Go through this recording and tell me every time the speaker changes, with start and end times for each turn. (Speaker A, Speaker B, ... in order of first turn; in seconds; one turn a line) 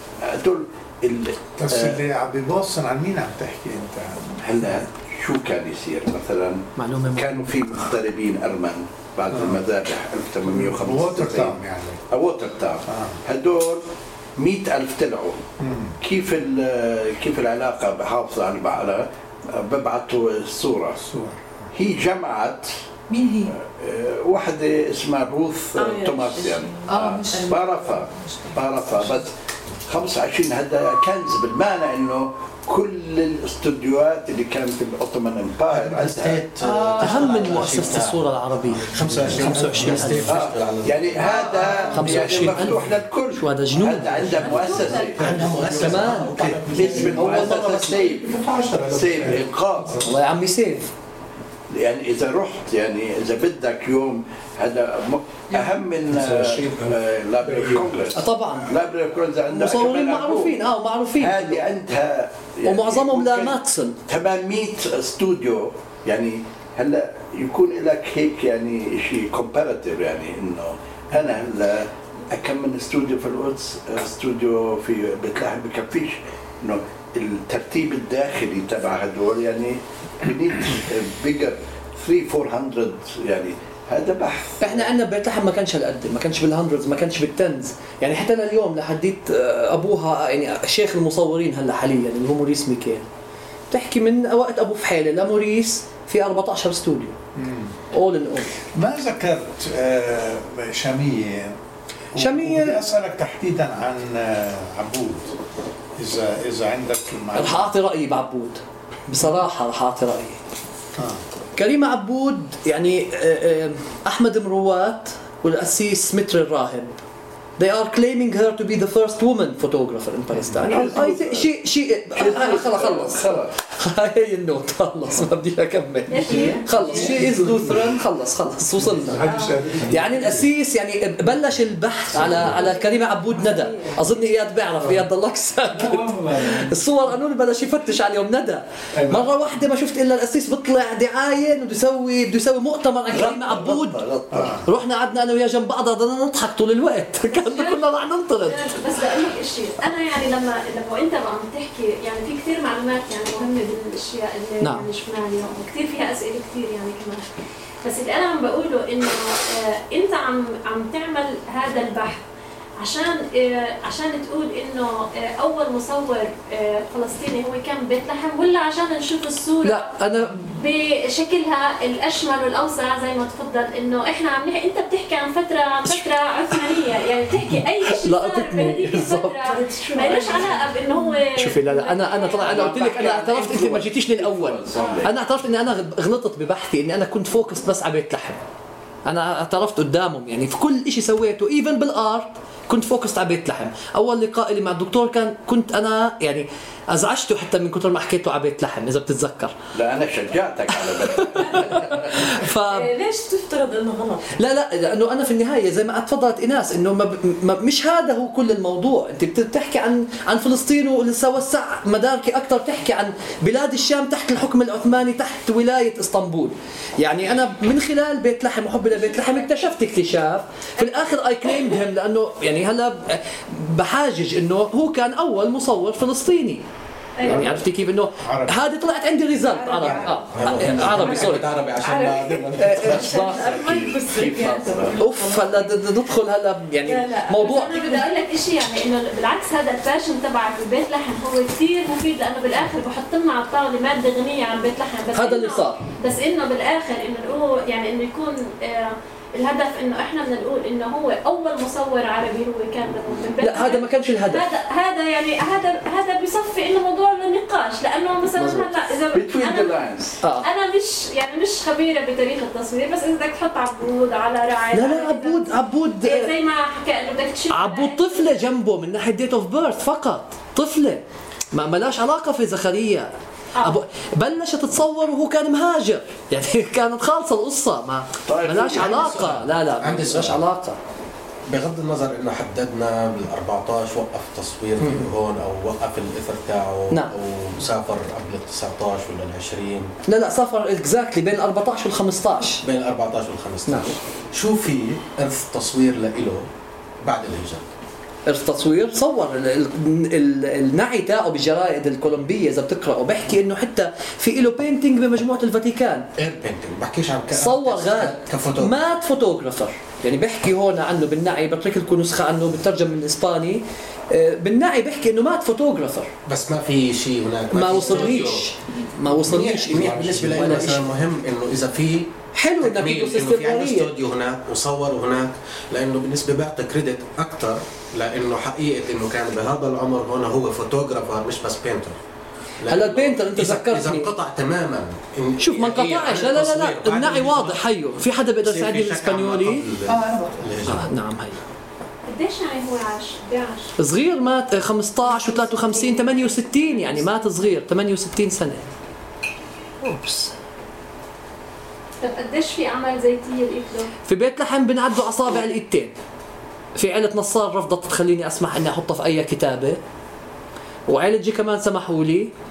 Speaker A: 0.2-2.0
Speaker B: 1.6-4.4
Speaker A: 4.4-11.6
Speaker C: 6.8-7.5
Speaker B: 9.3-9.6
Speaker B: 10.4-12.0
Speaker A: 12.1-13.8
Speaker B: 12.9-13.2
Speaker A: 14.4-15.4
Speaker B: 15.6-15.9
Speaker A: 16.0-21.0
Speaker B: 21.0-21.7
Speaker A: 21.7-22.7
Speaker D: 23.1-23.5
Speaker A: 23.4-29.3
Speaker E: 25.8-26.9
Speaker D: 26.9-29.1
Speaker A: 29.9-37.2
Speaker F: 35.8-38.2
Speaker C: 37.0-40.3
Speaker F: 38.8-42.5
Speaker A: 40.2-50.1
Speaker C: 41.9-44.5
Speaker E: 44.5-45.2
Speaker F: 45.1-47.8
Speaker B: 45.2-47.1
Speaker C: 45.7-48.0
Speaker B: 48.1-50.0
Speaker C: 50.0-50.9
Speaker A: 51.7-60.6
Speaker D: 55.5-55.8
Speaker B: 56.2-56.7
Speaker B: 57.4-57.9
Speaker C: 58.1-58.7
Speaker C: 59.5-61.6
Speaker A: 61.2-84.9
Speaker C: 62.6-64.0
Speaker C: 84.6-93.0
Speaker C: 93.7-97.1
Speaker B: 97.3-97.8
Speaker C: 97.9-98.5
Speaker B: 98.6-101.6
Speaker B: 102.1-105.4
Speaker C: 102.2-102.8
Speaker B: 106.0-107.7
Speaker C: 107.3-110.4
Speaker C: 111.5-116.9
Speaker C: 117.6-129.2
Speaker A: 120.6-121.5
Speaker A: 122.2-123.5
Speaker G: 126.1-127.3
Speaker B: 126.2-127.9
Speaker B: 128.8-130.4
Speaker E: 129.2-129.7
Speaker C: 129.8-144.0
Speaker E: 132.2-134.0
Speaker B: 135.8-136.7
Speaker B: 139.0-139.3
Speaker A: 143.1-144.6
Speaker B: 144.3-144.6
Speaker C: 144.6-148.8
Speaker G: 147.3-147.9
Speaker G: 148.4-157.2
Speaker C: 154.6-154.9
Speaker G: 157.8-162.2
Speaker G: 162.8-169.9
Speaker C: 169.6-170.5
Speaker G: 170.4-182.6
Speaker C: 175.9-176.6
Speaker C: 177.9-179.5
Speaker E: 179.4-181.2
Speaker C: 181.3-188.4
Speaker A: 182.4-185.1
Speaker E: 184.8-185.0
Speaker C: 189.1-199.5
Speaker A: 199.7-202.2
Speaker C: 201.0-202.9
Speaker E: 201.4-201.7
Speaker E: 202.7-204.4
Speaker C: 204.3-226.6
Speaker G: 219.0-219.5
Speaker E: 227.2-227.4
Speaker G: 227.2-227.5
Speaker C: 227.2-231.5
Speaker B: 228.2-228.6
Speaker E: 229.4-235.8
Speaker F: 230.3-233.0
Speaker C: 232.5-233.5
Speaker A: 233.0-235.0
Speaker C: 235.0-238.0
Speaker E: 236.8-238.1
Speaker G: 237.4-259.8
Speaker C: 245.1-245.8
Speaker C: 253.4-254.4
Speaker C: 258.3-258.7
Speaker A: 259.1-260.2
Speaker C: 260.2-260.5
Speaker G: 260.4-265.4
Speaker C: 264.7-266.3
Speaker G: 266.0-268.4
Speaker C: 267.5-280.8
Speaker A: 278.2-279.4
Speaker F: 278.9-280.4
Speaker F: 281.5-289.9
Speaker C: 284.8-285.1
Speaker C: 290.1-292.6
Speaker F: 292.6-296.4
Speaker C: 293.6-293.9
Speaker F: 297.0-297.6
Speaker C: 298.3-306.1
Speaker F: 306.2-308.8
Speaker C: 307.3-316.1
Speaker F: 316.3-318.5
Speaker C: 317.5-320.9
Speaker F: 319.2-332.0
Speaker C: 322.3-323.9
Speaker F: 332.6-337.6
Speaker C: 332.7-334.1
Speaker C: 335.4-339.6
Speaker F: 338.4-340.9
Speaker D: 339.9-340.5
Speaker C: 340.6-341.4
Speaker G: 342.0-343.7
Speaker C: 343.8-348.6
Speaker G: 345.0-347.4
Speaker C: 349.8-350.3
Speaker G: 352.0-353.9
Speaker C: 354.1-355.9
Speaker C: 356.8-359.8
Speaker C: 360.9-362.3